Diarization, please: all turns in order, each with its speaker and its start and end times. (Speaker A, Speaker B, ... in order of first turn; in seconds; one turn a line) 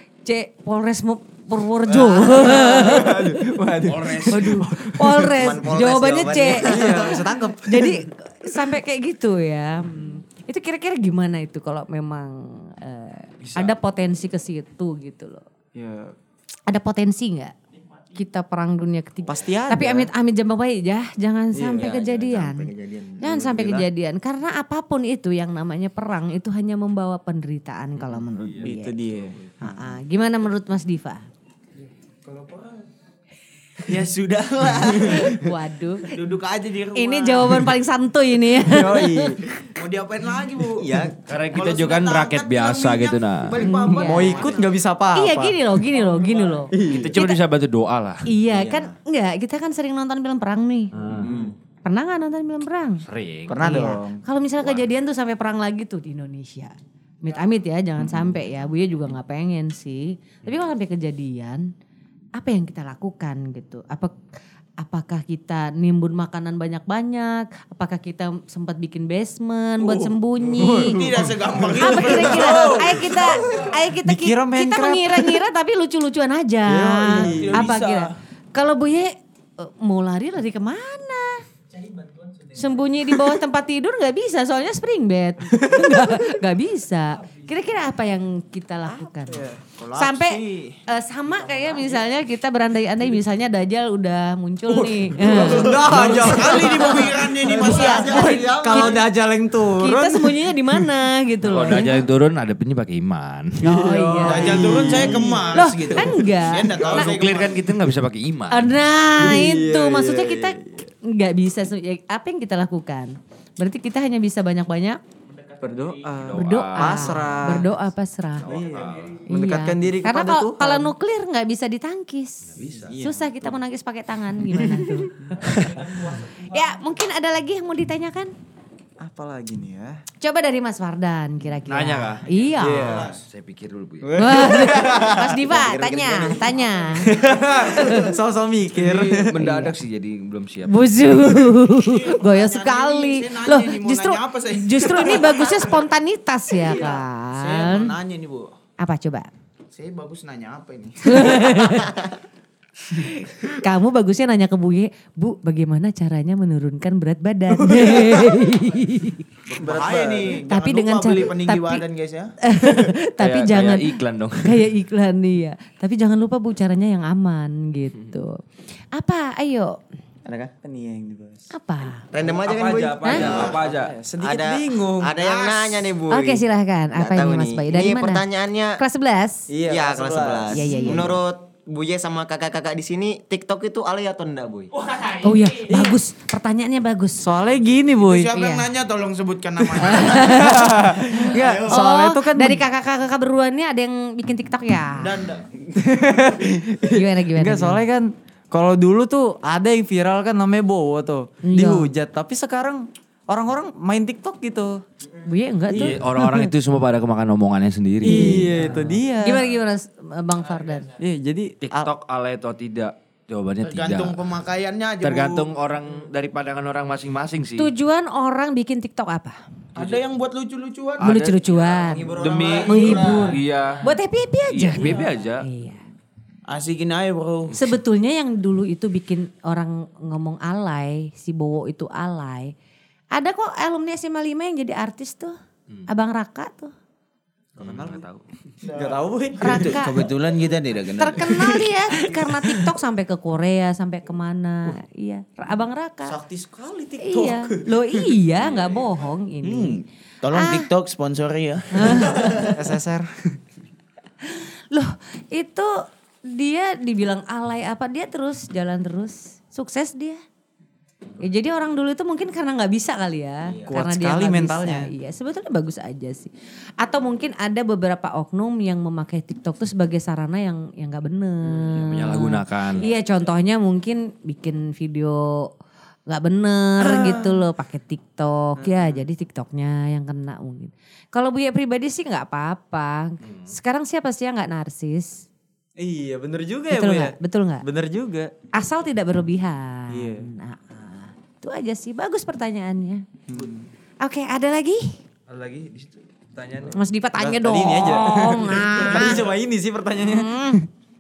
Speaker A: 0.2-3.6
Speaker B: 1.9-5.6
Speaker C: 3.8-4.7
Speaker A: 4.3-15.4
Speaker D: 5.3-7.2
Speaker B: 6.4-8.1
Speaker C: 13.4-13.7
Speaker B: 15.8-16.1
Speaker A: 16.7-17.6
Speaker A: 18.1-29.0
Speaker B: 19.3-20.1
Speaker B: 21.5-21.9
Speaker D: 21.7-23.8
Speaker C: 28.0-28.7
Speaker B: 28.6-29.4
Speaker C: 29.3-29.7
Speaker A: 29.6-31.2
Speaker E: 31.8-32.9
Speaker E: 33.8-35.5
Speaker A: 34.8-36.2
Speaker B: 34.9-35.2
Speaker E: 36.1-37.7
Speaker A: 36.9-39.4
Speaker B: 38.5-39.7
Speaker E: 39.8-44.8
Speaker D: 40.7-41.2
Speaker C: 41.3-43.6
Speaker A: 43.6-44.5
Speaker B: 43.8-45.7
Speaker A: 45.1-47.4
Speaker E: 45.9-46.7
Speaker B: 46.7-47.2
Speaker C: 46.9-48.3
Speaker A: 48.3-51.0
Speaker D: 48.4-49.0
Speaker C: 50.9-51.3
Speaker D: 51.2-51.5
Speaker B: 51.2-51.5
Speaker A: 51.9-53.0
Speaker C: 53.0-53.6
Speaker B: 53.5-54.2
Speaker A: 53.6-61.7
Speaker A: 62.4-64.2
Speaker A: 64.8-71.1
Speaker B: 69.8-75.4
Speaker E: 70.9-73.7
Speaker A: 71.8-81.4
Speaker B: 76.7-77.7
Speaker E: 77.1-78.1
Speaker A: 82.5-97.0
Speaker B: 85.5-86.2
Speaker B: 89.2-89.6
Speaker E: 89.8-91.9
Speaker B: 94.7-100.9
Speaker E: 95.2-98.9
Speaker A: 97.5-99.0
Speaker D: 97.7-99.0
Speaker A: 99.8-102.0
Speaker C: 101.4-103.8
Speaker B: 103.6-105.7
Speaker A: 103.6-107.1
Speaker E: 104.2-107.7
Speaker C: 106.8-108.8
Speaker A: 108.5-115.0
Speaker B: 109.2-110.9
Speaker B: 115.6-117.7
Speaker C: 116.1-117.6
Speaker A: 116.3-118.5
Speaker C: 118.4-119.2
Speaker B: 118.4-120.9
Speaker A: 119.3-128.3
Speaker C: 122.5-123.2
Speaker B: 122.8-123.2
Speaker B: 124.5-125.5
Speaker C: 125.4-125.8
Speaker B: 129.0-130.0
Speaker A: 130.2-133.1
Speaker C: 131.7-134.3
Speaker E: 132.4-133.2
Speaker B: 132.6-133.1
Speaker B: 134.0-135.4
Speaker A: 134.2-137.1
Speaker D: 135.5-136.5
Speaker B: 137.0-139.8
Speaker E: 137.2-137.8
Speaker A: 137.7-138.2
Speaker C: 138.8-140.8
Speaker A: 140.7-147.9
Speaker E: 141.6-145.8
Speaker E: 146.6-148.5
Speaker A: 148.8-149.3
Speaker E: 149.7-151.8
Speaker A: 151.0-152.0
Speaker A: 152.9-159.3
Speaker B: 157.6-158.4
Speaker C: 159.5-160.1
Speaker E: 159.6-162.3
Speaker B: 159.6-160.3
Speaker A: 160.4-161.8
Speaker A: 162.4-168.4
Speaker C: 163.2-164.7
Speaker A: 168.9-169.8
Speaker B: 170.2-171.5
Speaker A: 171.5-172.0
Speaker D: 172.1-173.6
Speaker C: 172.2-173.9
Speaker B: 173.2-175.4
Speaker D: 174.2-178.8
Speaker E: 175.2-175.6
Speaker A: 176.1-178.3
Speaker A: 178.8-179.5
Speaker B: 179.5-181.2
Speaker D: 179.7-184.7
Speaker A: 180.5-181.2
Speaker A: 185.0-187.3
Speaker B: 185.3-186.0
Speaker B: 187.2-188.3
Speaker E: 188.0-190.6
Speaker A: 188.3-188.7
Speaker A: 189.8-195.2
Speaker B: 190.2-192.6
Speaker D: 191.3-191.8
Speaker E: 195.0-195.5
Speaker B: 195.7-204.8
Speaker A: 196.9-197.8
Speaker A: 201.4-201.9
Speaker A: 205.2-206.5
Speaker B: 205.7-206.0
Speaker C: 205.7-209.0
Speaker B: 208.0-209.5
Speaker A: 208.1-208.5
Speaker A: 209.2-210.9
Speaker B: 211.0-211.9
Speaker C: 211.6-214.3
Speaker E: 213.6-215.5
Speaker C: 215.0-217.7
Speaker A: 217.6-219.4
Speaker C: 219.8-220.0
Speaker E: 219.8-221.2
Speaker C: 221.0-223.9
Speaker A: 221.0-225.8
Speaker D: 221.7-223.4
Speaker C: 224.5-225.5
Speaker E: 226.5-227.5
Speaker A: 227.5-232.5
Speaker A: 233.1-235.4
Speaker A: 235.9-236.7
Speaker C: 237.6-238.2
Speaker B: 237.6-240.0
Speaker E: 238.6-241.7
Speaker A: 239.4-240.1
Speaker C: 240.5-240.9
Speaker A: 241.0-246.2
Speaker B: 246.1-248.1
Speaker A: 247.0-250.7
Speaker C: 248.3-249.0
Speaker E: 249.4-252.5
Speaker A: 251.7-252.5
Speaker B: 252.4-253.4
Speaker A: 254.2-260.2
Speaker A: 261.2-275.5
Speaker B: 263.7-264.9
Speaker C: 271.5-272.9
Speaker A: 276.1-285.3
Speaker B: 278.6-279.0
Speaker C: 283.2-283.5
Speaker B: 285.8-288.3
Speaker A: 286.7-287.6
Speaker A: 288.5-293.1
Speaker B: 289.9-290.3
Speaker B: 293.3-293.7
Speaker A: 294.0-295.0
Speaker C: 295.3-296.8
Speaker A: 296.7-299.3
Speaker B: 297.2-300.3
Speaker E: 298.5-299.4
Speaker A: 300.0-300.7